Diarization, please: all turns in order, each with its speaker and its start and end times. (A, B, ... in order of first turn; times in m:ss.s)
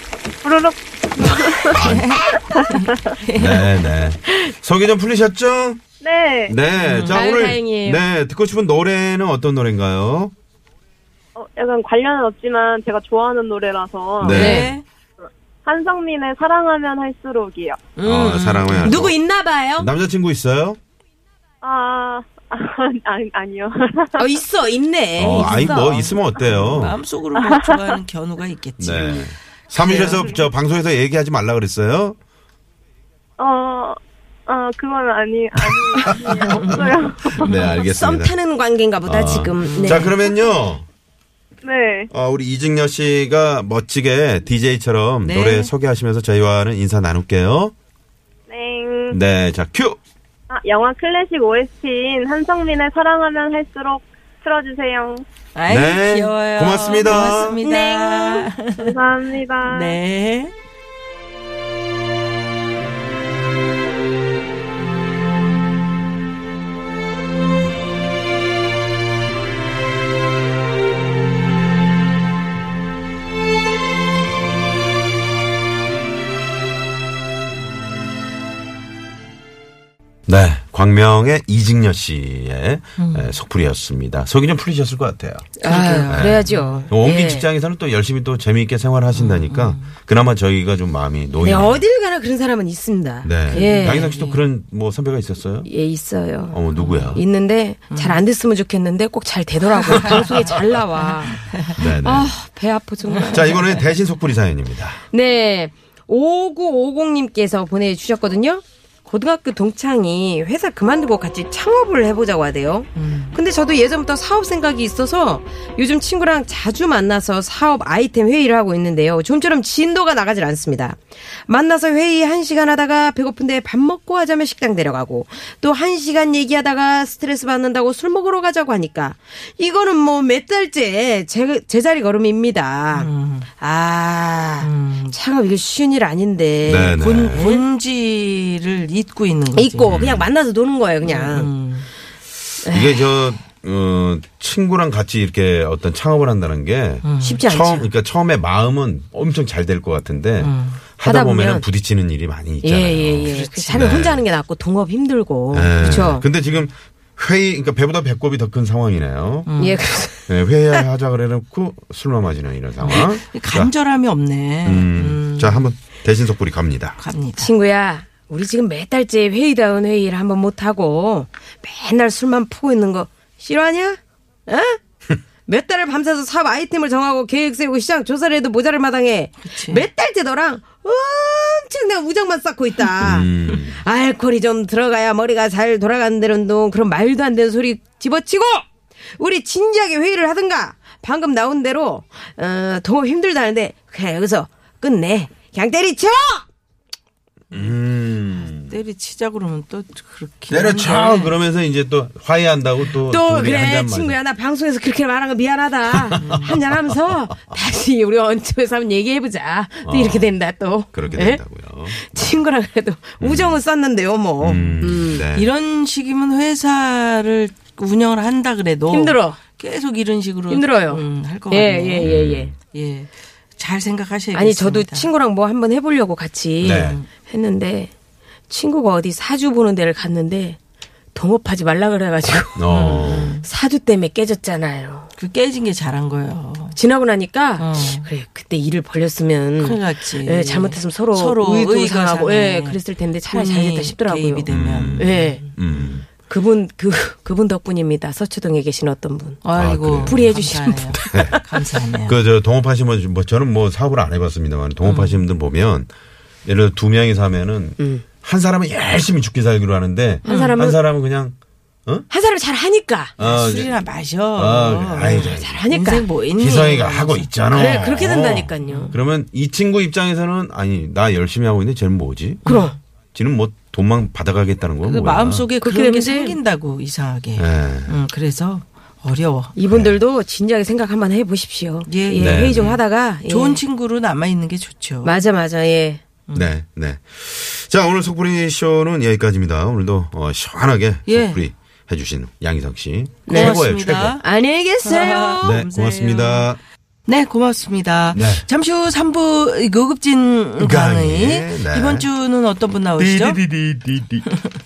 0:00.4-0:01.8 A
0:01.7-0:02.2 B
0:01.8-0:03.7 C
0:02.0-0:02.4 D
0:02.5-0:03.0 A
0:03.3-0:05.8 B
0:06.0-0:06.6 A
0:06.5-0:10.3 B
0:06.8-0:07.2 C
0:07.1-0:08.0 D
0:11.4-0:14.4 A
0:14.2-0:14.8 B
0:14.3-0:14.8 C
0:14.3-0:14.7 D
0:15.6-0:17.8 A
0:18.0-0:19.0 C
0:18.0-0:19.2 B
0:18.1-0:19.9 D
0:19.8-0:20.8 B
0:21.6-0:24.3 A
0:24.2-0:26.2 D
0:25.2-0:27.0 B
0:25.3-0:30.3 C
0:27.4-0:27.6 A
0:28.8-0:32.2 B
0:30.0-0:30.3 A
0:33.4-0:34.0 A
0:34.5-0:37.5 A
0:36.4-0:36.7 C
0:37.3-0:38.3 B
0:37.6-0:40.1 D
0:39.0-0:40.8 B
0:39.6-0:40.2 C
0:41.6-0:42.1 A
0:42.1-0:47.7 B
0:45.2-0:45.7 C
0:48.5-0:49.2 A
0:49.1-0:50.0 B
0:50.5-0:55.2 A
0:55.5-0:58.9 C
0:55.7-0:57.6 B
0:57.4-0:58.5 D
0:58.8-1:00.0 A
0:59.6-1:00.5 C
1:20.3-1:31.8 B
1:23.0-1:23.3 C
1:25.6-1:27.5 D
1:25.6-1:26.9 C
1:29.1-1:29.9 C
1:31.4-1:34.1 D
1:33.2-1:35.7 B
1:33.5-1:34.4 C
1:35.6-1:43.8 D
1:36.5-1:37.2 B
1:36.8-1:37.1 C
1:37.9-1:38.2 C
1:41.0-1:41.8 C
1:41.6-1:42.3 B
1:43.3-1:45.0 B
1:45.1-2:17.6 D
1:52.9-1:53.3 C
2:12.9-2:13.5 C
2:14.6-2:15.2 C
2:16.6-2:17.5 B
2:16.8-2:20.1 C
2:19.5-2:21.5 D
2:19.8-2:20.3 B
2:21.0-2:21.9 C
2:22.6-2:23.0 D
2:22.7-2:34.2 B
2:27.0-2:27.4 C
2:27.2-2:27.9 D
2:30.4-2:30.8 C
2:31.0-2:31.6 D
2:32.6-2:36.2 D
2:33.2-2:34.0 C
2:35.5-2:39.5 B
2:39.4-2:39.8 C
2:39.6-2:40.8 D
2:40.3-2:43.7 B
2:42.8-2:45.7 C
2:44.6-2:47.0 B
2:47.0-2:47.5 C
2:47.4-2:54.8 D
2:55.4-3:08.6 D
2:59.4-2:59.8 C
3:03.0-3:03.8 B
3:09.2-3:16.4 D
3:17.5-3:17.8 C
3:17.5-3:18.8 B
3:18.5-3:21.3 C
3:20.5-3:24.2 B
3:23.1-3:35.2 D
3:26.1-3:26.4 B
3:26.2-3:26.5 C
3:29.8-3:30.4 B
3:30.9-3:32.0 B
3:33.2-3:33.6 B
3:34.4-3:35.5 B
3:35.3-3:45.1 C
3:38.9-3:39.4 D
3:40.5-3:42.5 D
3:42.0-3:42.5 B
3:44.3-3:47.9 D
3:46.6-3:47.0 B
3:46.6-3:47.1 C
3:48.5-3:50.6 D
3:51.1-3:55.1 D
3:52.6-3:53.3 B
3:52.7-3:53.4 C
3:55.2-3:56.8 C
3:56.8-4:05.4 D
3:57.6-3:58.1 C
3:59.6-4:06.0 C
4:04.5-4:06.0 B
4:06.0-4:09.4 D
4:09.4-4:12.2 C
4:09.6-4:10.3 B
4:10.0-4:11.6 D
4:11.0-4:11.4 B
4:12.0-4:15.9 B
4:14.8-4:15.2 C
4:16.4-4:22.1 B
4:17.8-4:18.0 D
4:20.2-4:20.8 D
4:20.2-4:20.6 C
4:22.1-4:23.1 D
4:23.2-4:23.8 B
4:23.2-4:27.3 C
4:24.3-4:25.6 B
4:25.1-4:26.1 D
4:26.3-4:32.4 B
4:27.5-4:29.0 D
4:28.6-4:28.9 C
4:32.4-4:32.8 C
4:32.4-4:32.8 D
4:33.1-4:35.5 B
4:34.8-4:39.6 C
4:35.6-4:36.4 D
4:37.4-4:38.0 B
4:39.6-4:43.6 D
4:39.7-4:40.0 B
4:41.9-4:45.1 C
4:42.2-4:42.8 B
4:45.0-4:46.0 D
4:46.3-4:54.2 B
4:51.0-4:51.4 C
4:53.3-4:53.6 D
4:53.3-4:54.2 C
4:54.2-4:55.5 D
4:54.8-4:56.5 C
4:55.4-4:56.6 B
4:57.0-5:03.4 C
4:58.1-4:58.4 B
5:00.6-5:02.1 B
5:03.0-5:04.3 B